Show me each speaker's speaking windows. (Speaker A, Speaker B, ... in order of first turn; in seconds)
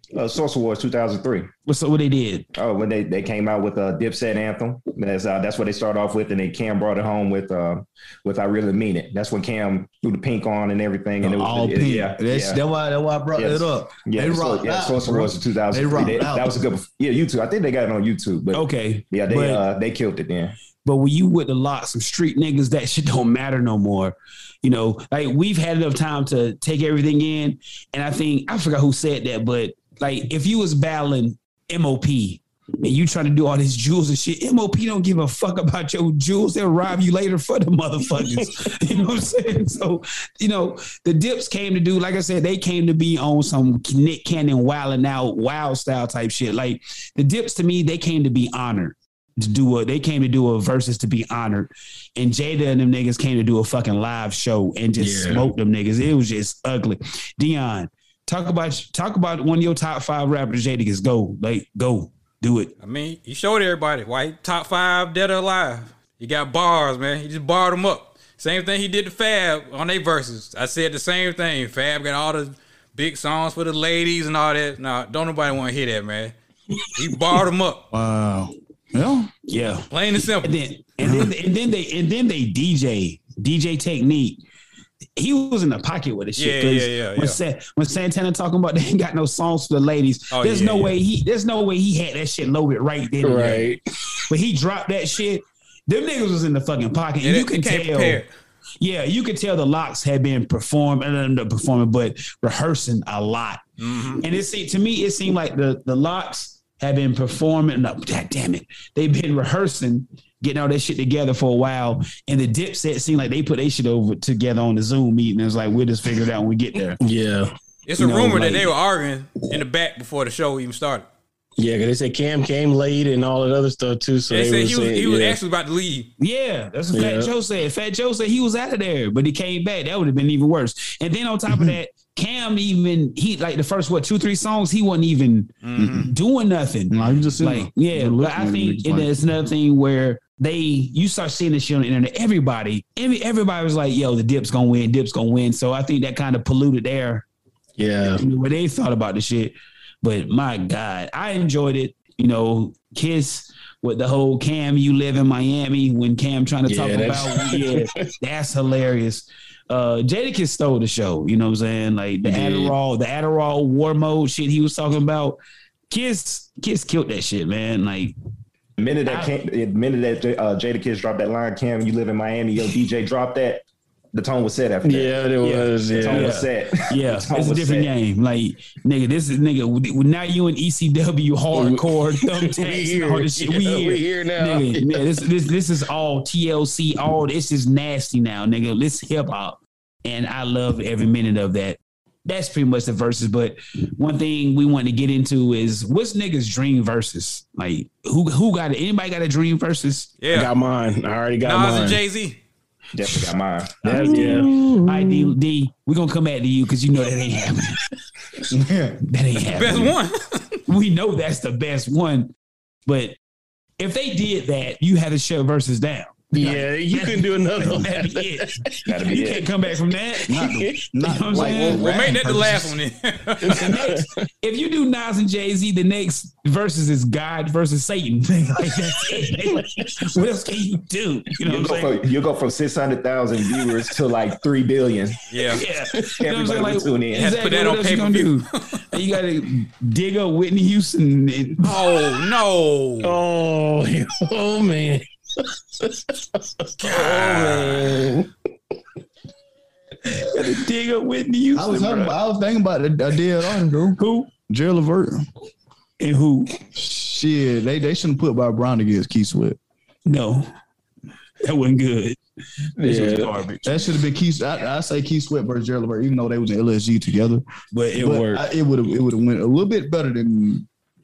Speaker A: 0.1-1.5, 2.5-12.6, 13.3-20.6, 168.8-175.2, 175.9-177.9, 202.9-204.0, 218.8-219.5, 231.4-235.2, 236.1-237.3
Speaker B: 1.7-2.5, 18.5-19.6, 20.8-62.7, 79.5-84.4, 85.2-93.7, 94.3-98.2, 98.8-103.6, 104.2-117.0, 118.0-118.7, 126.2-147.2, 148.1-165.4, 165.9-168.1, 169.1-169.3, 175.4-200.2, 203.9-207.8, 209.1-209.9, 210.7-212.3, 212.8-213.2, 213.8-222.1, 223.4-231.9, 235.5-241.8, 246.8-247.6, 250.0-252.2, 253.9-254.3, 256.0-256.6, 260.0-260.5, 261.4-262.2, 262.8-263.8, 267.7-268.4
Speaker C: 11.2-16.6, 77.9-79.3, 81.0-81.3, 131.5-131.8, 136.9-139.1, 208.5-209.0, 220.2-222.8, 251.5-255.2, 256.7-259.6, 263.6-267.4, 267.9-270.6
Speaker D: 38.1-38.5, 55.0-55.5, 93.2-93.8, 117.0-117.5, 121.6-125.4, 126.9-127.3, 147.8-148.2, 156.7-158.1, 162.2-162.8, 174.8-176.4, 181.5-185.2, 200.3-202.0, 203.8-204.8, 216.3-218.9, 220.3-220.8, 223.4-224.2, 229.0-229.9, 243.0-248.3, 262.8-263.4
Speaker E: 62.8-76.3, 76.9-77.8, 79.9-80.6, 86.4-87.4, 90.3-91.0, 97.2-98.3, 103.8-104.2, 117.8-121.0, 124.3-126.1, 135.6-136.1, 200.2-200.5, 201.4-202.4, 209.5-210.6, 221.3-223.7, 235.3-235.6, 237.1-238.8, 241.6-243.2, 246.8-247.8